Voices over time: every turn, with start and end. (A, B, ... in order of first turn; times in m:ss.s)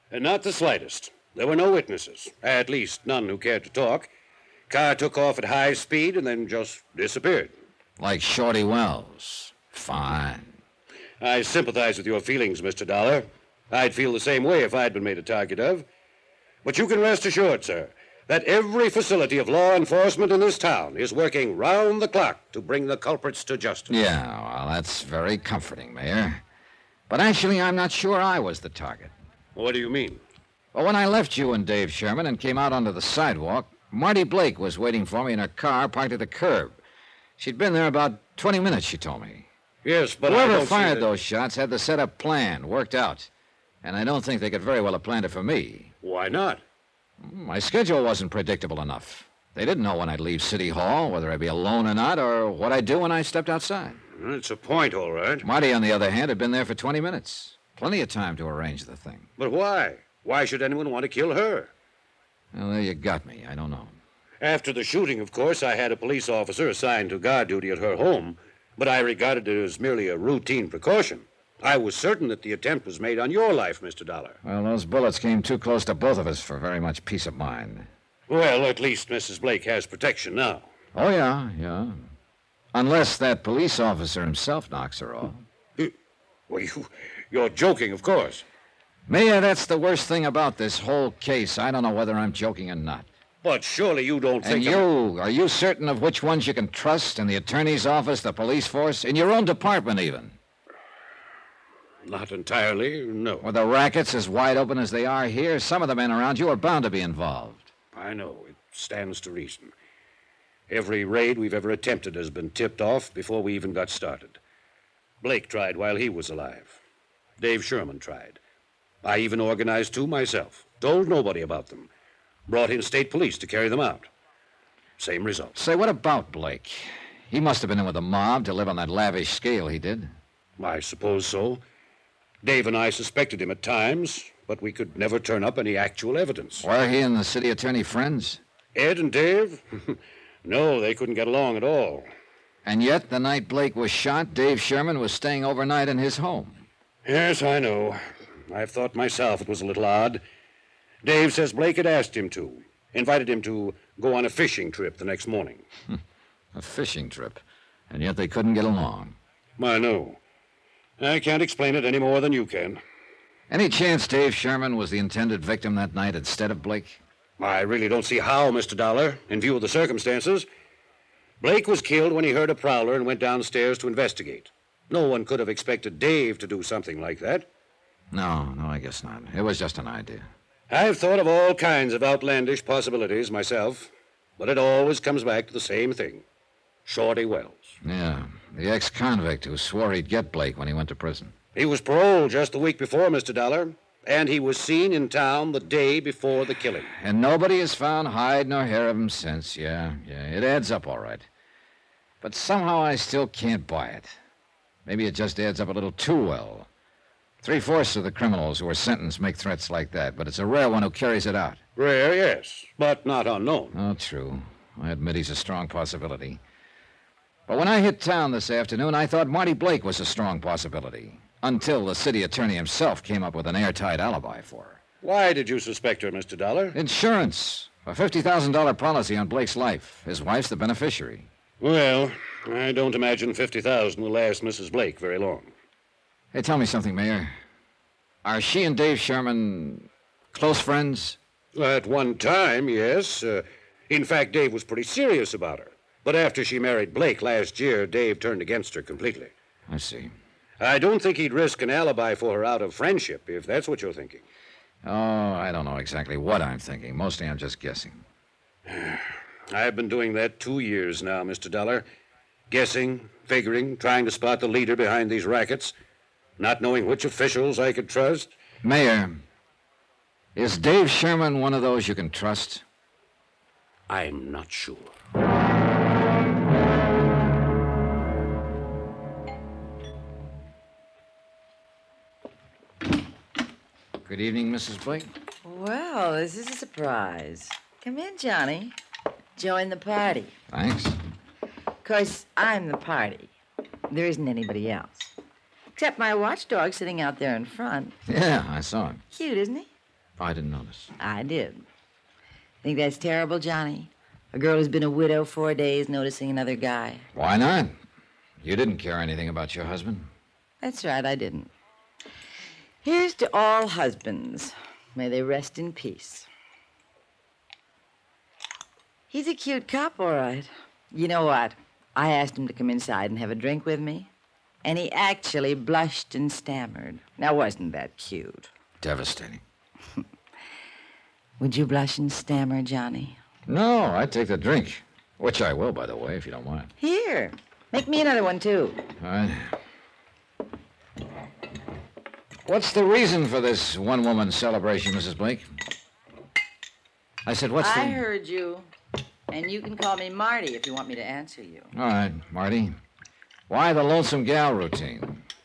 0:00.1-0:04.1 A
0:04.7-0:07.5 A
0:08.0-0:10.5 B
0:11.2-0:15.9 A
0:16.6-0:24.0 A
0:23.9-0:26.4 B
0:27.1-0:29.1 B
0:29.6-0:30.2 A
0:30.7-0:36.8 B
0:37.4-0:39.5 B
0:39.8-0:41.1 A
0:40.2-0:43.3 B
0:43.8-0:45.9 B
0:46.0-0:46.6 A
0:47.2-0:54.0 B
0:54.2-0:55.4 A
0:55.4-0:59.3 B
0:59.4-1:01.7 A
1:02.5-1:04.0 B
1:04.4-1:14.4 A
1:14.4-1:17.9 B
1:18.3-1:20.7 A
1:20.9-1:22.0 B
1:22.7-1:25.4 B
1:26.5-1:28.4 A
1:29.1-1:33.1 B
1:33.4-1:34.9 A
1:34.4-1:40.4 B
1:42.1-1:43.5 A
1:43.4-1:47.7 B
1:47.9-1:49.7 A
1:50.7-1:54.4 A
1:55.2-1:56.8 A
1:57.4-1:58.4 A
1:59.0-2:01.9 A
2:02.5-2:04.1 A
2:05.0-2:05.6 A
2:05.6-2:10.1 B
2:10.6-2:11.6 A
2:12.4-2:16.7 A
2:16.6-2:18.4 B
2:18.8-2:22.1 A
2:22.6-2:26.6 B
2:27.0-2:30.2 A
2:31.0-2:35.6 A
2:36.5-2:39.2 B
2:39.6-2:40.2 A
2:41.0-2:42.8 A
2:43.5-2:47.0 B
2:47.4-2:50.5 A
2:51.4-2:57.5 A
2:58.1-3:00.3 B
3:00.7-3:06.2 A
3:06.9-3:07.7 A
3:07.8-3:11.3 B
3:11.6-3:16.9 A
3:16.9-3:21.3 B
3:22.2-3:24.2 B
3:24.9-3:26.7 B
3:27.4-3:31.6 B
3:31.8-3:33.8 A
3:33.7-3:36.4 B
3:37.5-3:44.8 B
3:45.0-3:46.8 A
3:46.7-3:51.3 B
3:51.6-3:55.5 A
3:56.3-3:57.3 B
3:58.2-4:01.2 B
4:01.6-4:09.3 A
4:09.7-4:10.1 B
4:10.6-4:14.2 A
4:14.8-4:18.0 B
4:18.7-4:21.9 A
4:22.5-4:25.7 A
4:26.4-4:28.3 A
4:28.6-4:29.2 B
4:30.4-4:32.6 B
4:33.9-4:34.9 A
4:44.0-4:45.1 B
4:45.4-4:48.7 C
4:49.4-4:50.3 C
4:50.5-4:51.0 B
4:51.8-4:53.3 C
4:53.9-4:55.1 C
4:55.8-4:58.0 C
4:58.1-4:59.0 B
4:59.1-4:59.7 C
5:00.2-5:00.9 B
5:01.0-5:01.6 C
5:02.6-5:07.0 C
5:07.1-5:07.8 B
5:08.4-5:10.1 B
5:10.6-5:11.5 C
5:12.8-5:16.3 C
5:19.1-5:24.1 C
5:24.6-5:28.5 C
5:28.8-5:29.4 B
5:31.4-5:33.2 C
5:33.5-5:36.7 B
5:36.8-5:38.8 C
5:39.0-5:39.5 B
5:42.5-5:45.4 B
5:47.3-5:48.0 B
5:47.6-5:48.7 C
5:49.3-5:51.7 C
5:51.7-5:52.7 B
5:53.5-5:55.2 B